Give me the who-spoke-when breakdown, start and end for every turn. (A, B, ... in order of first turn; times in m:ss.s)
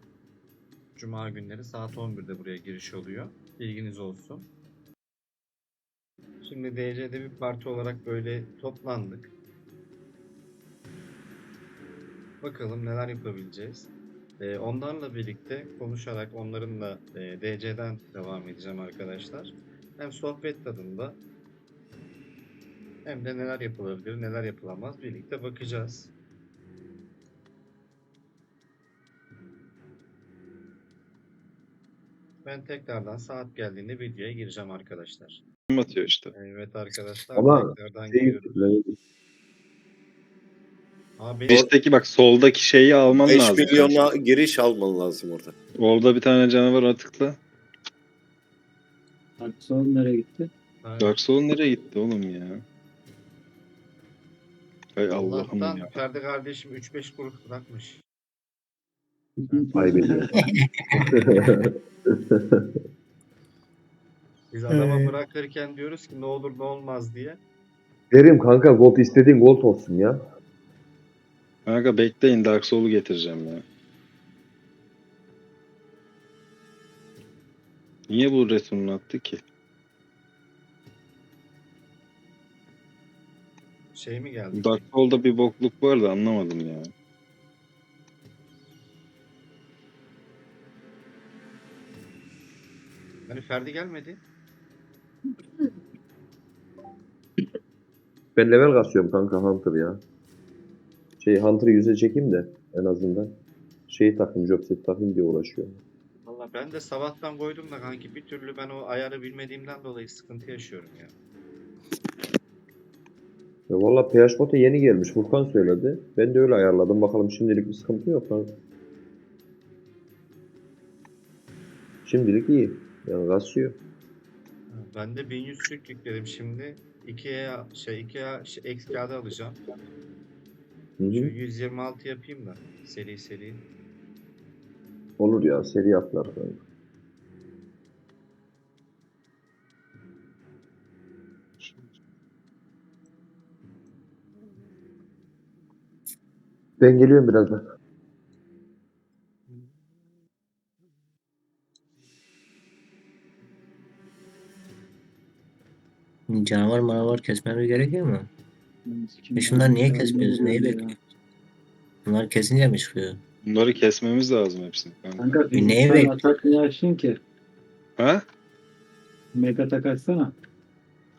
0:01.0-0:04.5 A
0:06.4-0:09.3 A
0:12.4-0:21.2 A
0:23.0-0:26.1 A
0:32.4-0:35.4 A
0:35.7-0:36.3 B
0:36.3-0:38.6 A
0:37.4-0:39.0 C
0:41.2-0:41.7 A
0:41.5-0:44.1 B
0:43.2-0:45.6 D
0:45.8-0:47.4 B
0:49.4-0:50.5 E
0:50.8-0:51.2 A
0:51.0-0:52.6 B
0:55.0-0:55.9 B
0:55.1-0:58.0 A
0:59.5-1:00.0 A
0:59.5-1:00.3 E
0:59.7-1:02.7 C
1:00.4-1:01.1 F
1:04.5-1:07.4 A
1:04.7-1:05.1 F
1:08.1-1:10.2 C
1:11.7-1:13.6 B
1:18.1-1:19.4 B
1:23.9-1:24.8 A
1:24.5-1:26.9 B
1:33.3-1:34.2 A
1:38.4-1:40.0 C
1:41.2-1:45.8 C
1:46.3-1:51.1 A
1:53.7-1:58.6 C
2:02.0-2:03.8 C
2:04.7-2:09.6 A
2:11.0-2:11.3 C
2:11.1-2:13.7 A
2:15.2-2:16.6 C
2:21.6-2:21.9 B
2:26.8-2:27.6 C
2:36.3-2:38.3 F
2:38.9-2:41.0 E
2:39.4-2:40.9 F
2:42.0-2:43.2 F
2:43.5-2:45.4 B
2:45.2-2:47.2 E
2:45.5-2:46.2 F
2:48.0-2:48.2 B
2:49.4-2:50.3 E